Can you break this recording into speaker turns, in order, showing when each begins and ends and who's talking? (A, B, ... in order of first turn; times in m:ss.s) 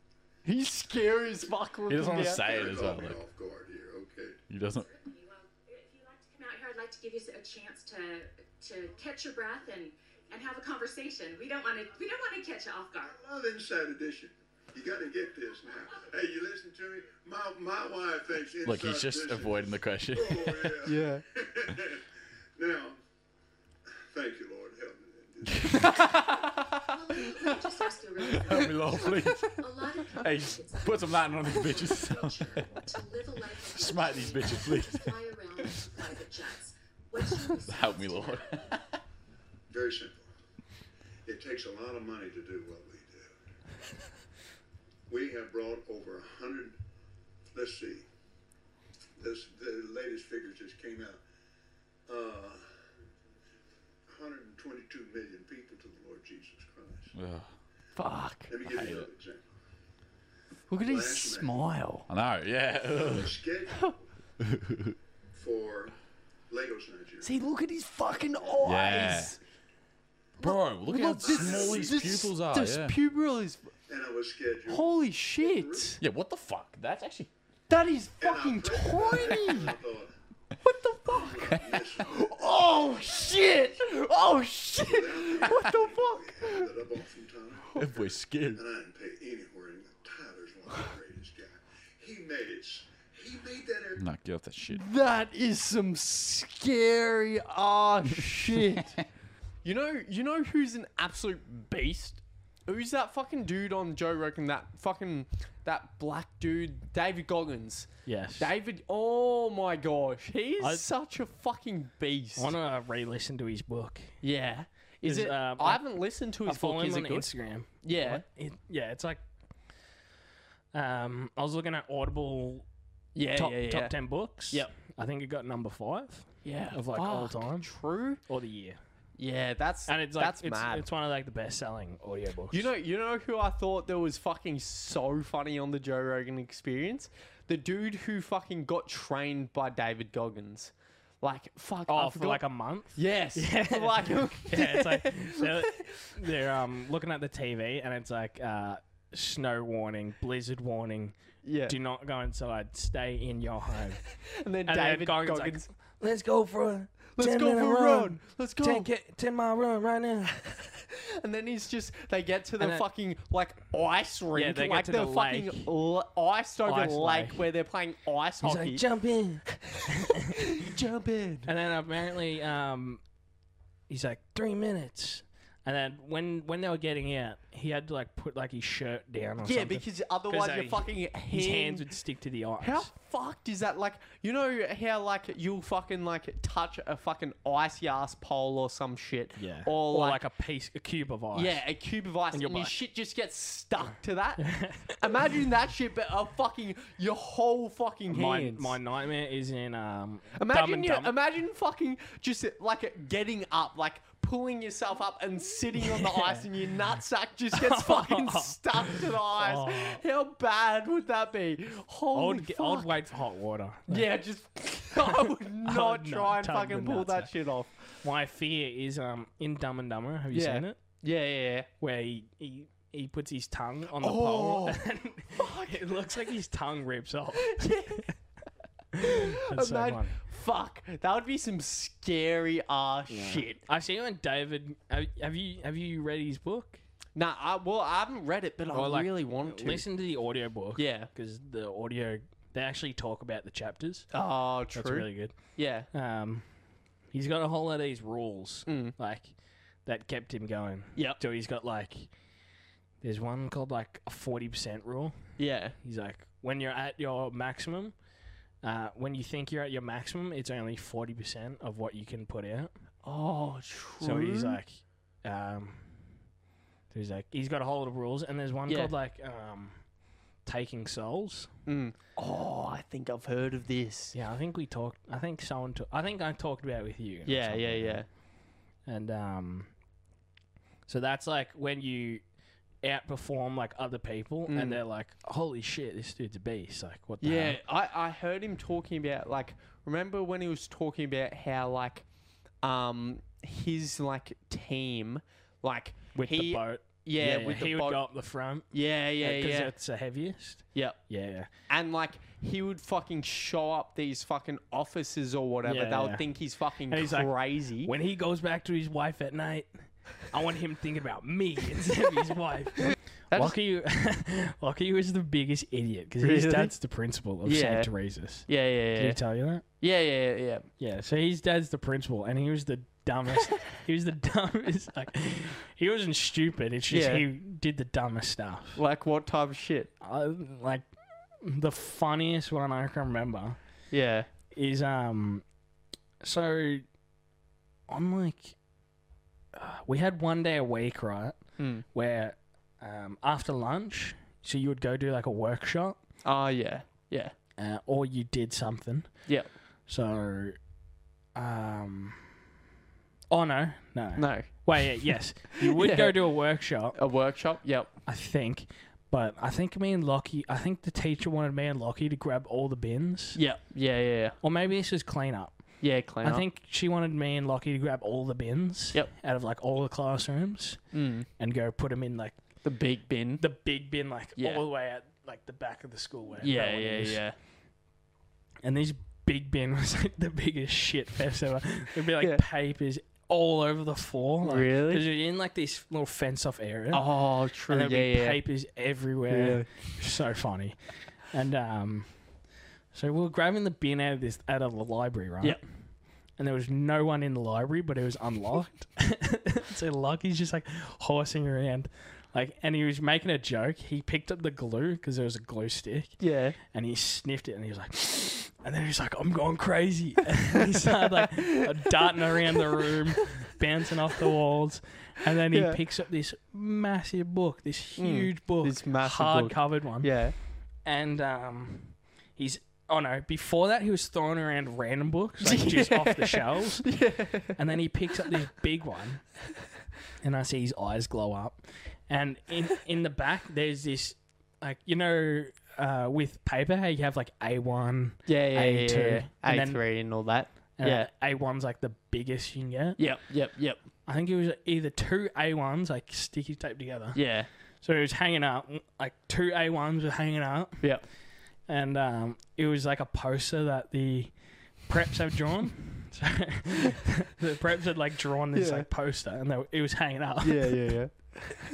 0:00.4-0:02.4 A
0:01.9-0:03.2 B
0:02.2-0:04.4 C
0:04.5-0:04.9 B
0:04.7-0:13.1 D
0:13.0-0:22.0 C
0:18.6-0:20.8 B
0:20.8-0:21.2 A
0:22.6-0:23.0 C
0:24.1-0:26.0 C
0:25.7-0:26.0 B
0:25.8-0:27.6 A
0:26.1-0:38.7 D
0:28.3-0:32.8 B
0:28.4-0:29.4 A
0:33.6-0:35.2 B
0:37.7-0:38.8 B
0:39.7-0:40.3 C
0:41.3-0:43.4 C
0:45.1-0:46.8 C
0:47.5-0:48.1 C
0:49.2-0:51.2 C
0:52.1-0:52.6 C
0:54.1-0:57.1 C
0:57.1-0:57.5 B
0:58.0-0:58.9 A
0:58.5-0:59.5 C
0:58.7-0:59.1 B
1:00.7-1:02.0 A
1:00.8-1:01.6 C
1:02.1-1:03.4 B
1:02.9-1:04.0 C
1:04.4-1:05.0 B
1:05.4-1:05.9 C
1:06.5-1:07.3 C
1:07.2-1:09.4 A
1:08.6-1:09.4 B
1:10.4-1:13.7 A
1:10.4-1:13.0 B
1:11.2-1:12.2 C
1:13.9-1:16.0 C
1:14.7-1:16.0 A
1:16.0-1:17.3 B
1:17.7-1:19.8 A
1:18.2-1:20.1 C
1:20.6-1:26.7 A
1:21.1-1:23.2 C
1:24.8-1:34.0 C
1:27.8-1:28.6 B
1:34.0-1:34.8 B
1:34.7-1:39.0 A
1:39.6-1:52.5 A
1:48.1-1:48.5 E
1:50.6-1:50.9 E
1:52.4-1:54.2 E
1:54.2-1:57.3 A
1:55.0-1:55.8 E
1:56.4-1:59.2 E
1:57.8-1:58.2 A
2:00.7-2:02.7 E
2:03.2-2:03.9 A
2:03.3-2:07.7 E
2:06.4-2:08.2 A
2:08.3-2:08.8 E
2:09.2-2:10.9 A
2:09.9-2:12.7 E
2:12.5-2:22.4 A
2:21.9-2:34.0 E
2:23.0-2:26.1 A
2:31.4-2:31.8 A
2:34.4-2:35.7 A
2:34.7-2:40.4 E
2:37.2-2:38.9 A
2:40.5-2:48.9 A
2:42.6-2:42.9 E
2:44.3-2:45.7 E
2:46.6-2:47.5 E
2:48.4-2:50.7 E
2:49.5-2:51.5 A
2:51.4-2:53.0 E
2:53.9-3:02.9 E
2:59.4-3:02.0 A
3:02.6-3:10.2 A
3:09.4-3:11.6 E
3:11.3-3:18.8 A
3:12.3-3:12.8 E
3:14.4-3:15.1 E
3:18.1-3:21.2 E
3:20.4-3:33.0 A
3:25.8-3:26.5 E
3:27.5-3:30.0 E
3:32.1-3:34.1 E
3:33.9-3:37.9 A
3:35.1-3:37.3 E
3:38.0-3:40.8 E
3:40.3-3:41.7 A
3:41.8-3:48.1 E
3:44.0-3:46.3 A
3:47.4-3:48.1 A
3:49.0-3:50.2 E
3:49.0-3:53.6 A
3:53.1-3:56.8 E
3:57.2-3:59.9 A
3:58.7-4:04.1 E
4:00.8-4:01.1 A
4:04.1-4:05.9 A
4:04.7-4:05.4 E
4:05.9-4:06.5 E
4:07.1-4:09.3 E
4:08.7-4:09.0 A
4:09.8-4:12.1 E
4:13.0-4:15.2 E
4:15.4-4:15.8 A
4:15.8-4:18.0 E
4:18.6-4:22.7 E
4:23.0-4:24.6 A
4:24.0-4:25.9 E
4:26.9-4:29.8 E
4:28.7-4:28.9 A
4:30.4-4:31.5 E
4:31.7-4:34.2 A
4:34.1-4:38.1 E
4:37.3-4:38.1 A
4:38.8-4:39.7 E
4:40.9-4:42.2 E
4:42.8-4:47.6 E
4:44.5-4:44.8 A
4:47.2-4:52.0 A
4:52.6-4:58.1 A
4:56.2-5:01.5 E
4:58.7-4:59.7 A
5:00.7-5:01.0 A
5:01.7-5:07.9 A
5:05.6-5:06.4 E
5:06.9-5:19.6 E
5:13.3-5:13.6 A
5:16.2-5:16.8 A
5:17.4-5:17.9 A
5:18.4-5:19.2 A
5:19.7-5:20.6 A
5:20.8-5:28.8 E
5:26.9-5:27.3 A
5:28.8-5:29.9 A
5:30.0-5:30.9 E
5:31.4-5:33.6 E
5:33.9-5:34.3 A
5:34.5-5:35.4 E
5:36.2-5:36.8 E
5:37.9-5:38.6 E
5:39.5-5:46.0 E
5:41.6-5:41.8 A
5:46.2-5:47.3 A
5:47.6-5:50.6 E
5:51.4-5:52.2 E
5:53.3-5:57.0 E
5:54.2-5:55.1 A
5:55.6-5:56.2 A
5:56.9-5:57.9 A
5:58.1-6:03.4 E
6:03.4-6:04.4 A
6:04.4-6:10.8 E
6:05.8-6:06.5 A
6:10.9-6:11.3 A
6:11.4-6:12.4 E
6:12.6-6:13.4 A
6:13.4-6:17.2 E
6:14.4-6:14.6 A
6:16.4-6:17.4 A
6:18.6-6:32.1 E
6:22.2-6:22.4 A
6:24.4-6:25.1 A
6:26.9-6:28.4 A
6:29.3-6:29.7 A
6:32.9-6:35.6 E
6:36.4-7:00.3 E
6:46.2-6:46.6 A
6:51.2-6:53.0 A
6:55.5-6:55.8 A
6:58.0-7:00.4 A
7:00.8-7:09.2 E
7:05.4-7:07.6 A
7:10.2-7:19.9 E
7:18.3-7:21.1 A
7:20.8-7:23.0 E
7:23.0-7:23.8 A
7:24.1-7:27.2 E
7:27.1-7:27.5 A
7:27.8-7:30.9 E
7:31.7-7:34.3 E
7:34.9-7:41.0 E
7:38.5-7:38.9 A
7:40.4-7:41.6 A